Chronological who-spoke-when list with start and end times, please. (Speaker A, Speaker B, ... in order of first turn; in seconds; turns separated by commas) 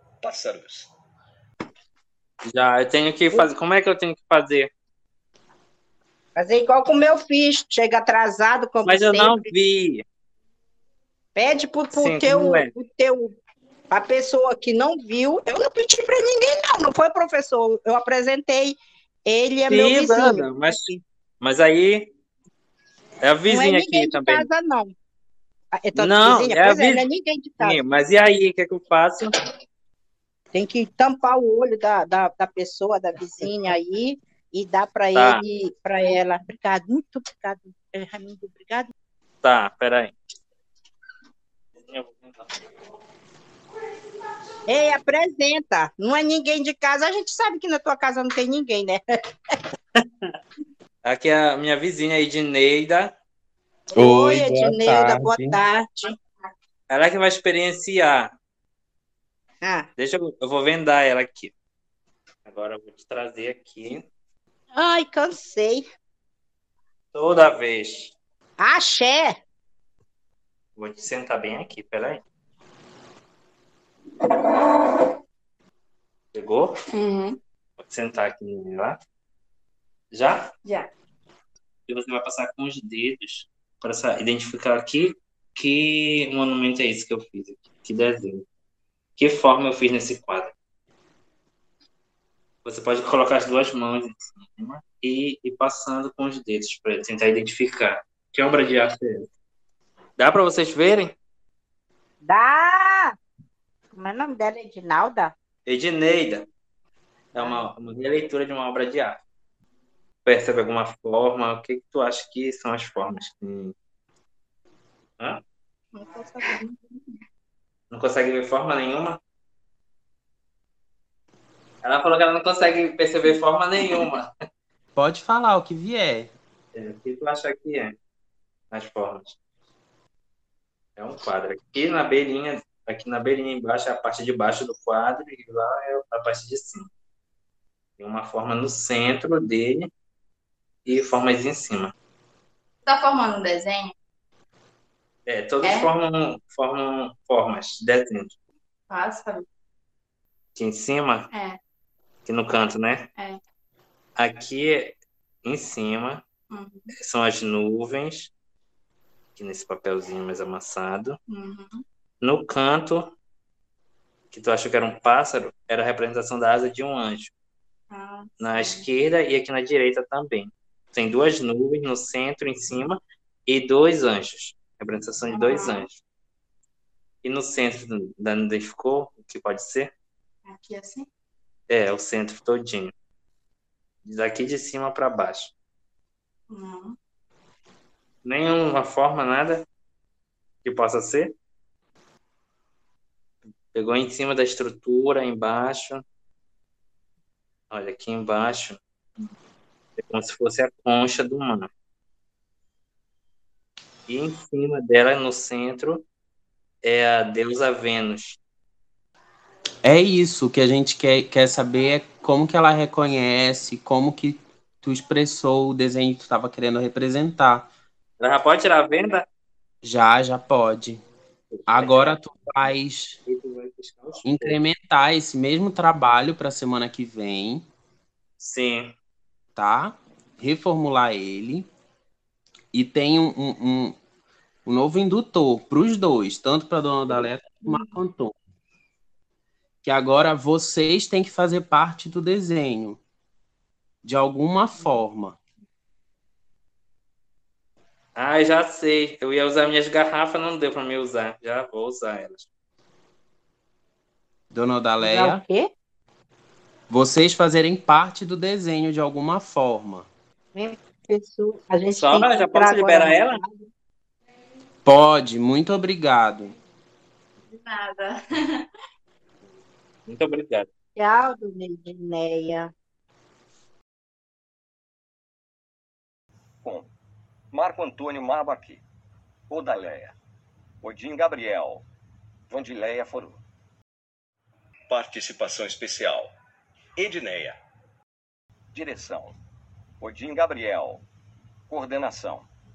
Speaker A: 0.2-0.9, Speaker B: 2.5-4.7, Speaker C: 6.4-9.5, Speaker B: 8.8-10.0, Speaker C: 11.3-13.4, Speaker B: 11.9-12.7, Speaker C: 13.9-21.0, Speaker B: 19.7-20.9, Speaker B: 21.4-22.1, Speaker B: 23.2-24.5, Speaker C: 23.5-24.9, Speaker C: 25.7-27.8, Speaker B: 26.0-27.1, Speaker B: 27.6-29.3, Speaker C: 30.5-38.9, Speaker B: 35.1-35.4, Speaker B: 39.4-40.1, Speaker B: 41.9-42.5, Speaker C: 44.7-49.0, Speaker B: 51.0-53.2, Speaker C: 54.0-56.1, Speaker D: 54.0-55.6, Speaker B: 56.9-58.3, Speaker B: 60.0-61.5, Speaker B: 62.5-64.0, Speaker C: 64.7-65.8, Speaker B: 67.1-68.2, Speaker C: 68.6-69.3, Speaker B: 70.8-72.2, Speaker B: 76.3-76.8, Speaker E: 76.9-77.4, Speaker B: 77.8-79.0, Speaker B: 80.1-80.5, Speaker B: 81.9-88.5, Speaker B: 89.2-90.5, Speaker B: 92.6-99.2, Speaker B: 100.2-101.2, Speaker C: 102.2-103.1, Speaker C: 104.0-105.3, Speaker B: 105.7-106.5, Speaker B: 107.3-109.2, Speaker B: 110.2-113.7, Speaker C: 116.0-116.6, Speaker B: 117.9-119.2, Speaker B: 121.8-124.3, Speaker D: 125.0-126.3, Speaker B: 126.8-128.0, Speaker B: 128.7-129.4, Speaker B: 131.0-136.9, Speaker B: 138.0-139.9, Speaker B: 140.9-141.9, Speaker E: 142.9-143.9, Speaker B: 145.3-148.4, Speaker E: 145.6-145.9, Speaker E: 148.9-149.5, Speaker B: 150.6-151.3, Speaker E: 151.3-151.6, Speaker B: 152.3-153.1, Speaker B: 154.2-156.2, Speaker E: 156.5-156.9, Speaker B: 157.0-158.3, Speaker B: 159.4-161.2, Speaker E: 161.3-161.8, Speaker B: 162.2-163.2, Speaker B: 164.3-167.3, Speaker E: 167.9-168.8, Speaker B: 168.4-176.0, Speaker E: 175.3-175.9, Speaker B: 177.2-179.9, Speaker E: 180.5-181.1, Speaker B: 181.7-182.9, Speaker B: 184.0-185.5, Speaker E: 186.5-187.0, Speaker B: 188.2-189.7, Speaker B: 190.6-191.3, Speaker B: 193.7-196.0, Speaker B: 197.7-199.3, Speaker B: 200.0-201.7, Speaker B: 204.1-206.1, Speaker B: 206.8-208.4, Speaker D: 209.8-217.7, Speaker B: 218.2-219.2, Speaker D: 219.8-221.0, Speaker B: 221.5-222.7, Speaker D: 221.7-223.2, Speaker B: 223.3-224.6, Speaker D: 224.2-227.7, Speaker B: 228.4-228.9, Speaker D: 229.6-231.7, Speaker D: 232.7-234.0, Speaker D: 234.7-238.3, Speaker D: 239.8-243.0, Speaker D: 244.0-245.4, Speaker B: 248.2-252.5, Speaker D: 254.5-255.4, Speaker C: 255.0-255.7, Speaker D: 256.9-260.1, Speaker C: 260.6-263.7, Speaker B: 261.9-263.4, Speaker D: 264.9-266.6, Speaker E: 267.5-268.6, Speaker B: 270.1-270.7, Speaker C: 271.0-272.7, Speaker A: 276.6-276.9, Speaker A: 277.5-278.8, Speaker A: 279.5-280.2, Speaker A: 280.8-281.8, Speaker A: 282.5-283.4, Speaker A: 284.9-286.3, Speaker A: 287.0-287.6, Speaker A: 288.7-289.4, Speaker A: 290.0-291.0, Speaker A: 291.7-292.5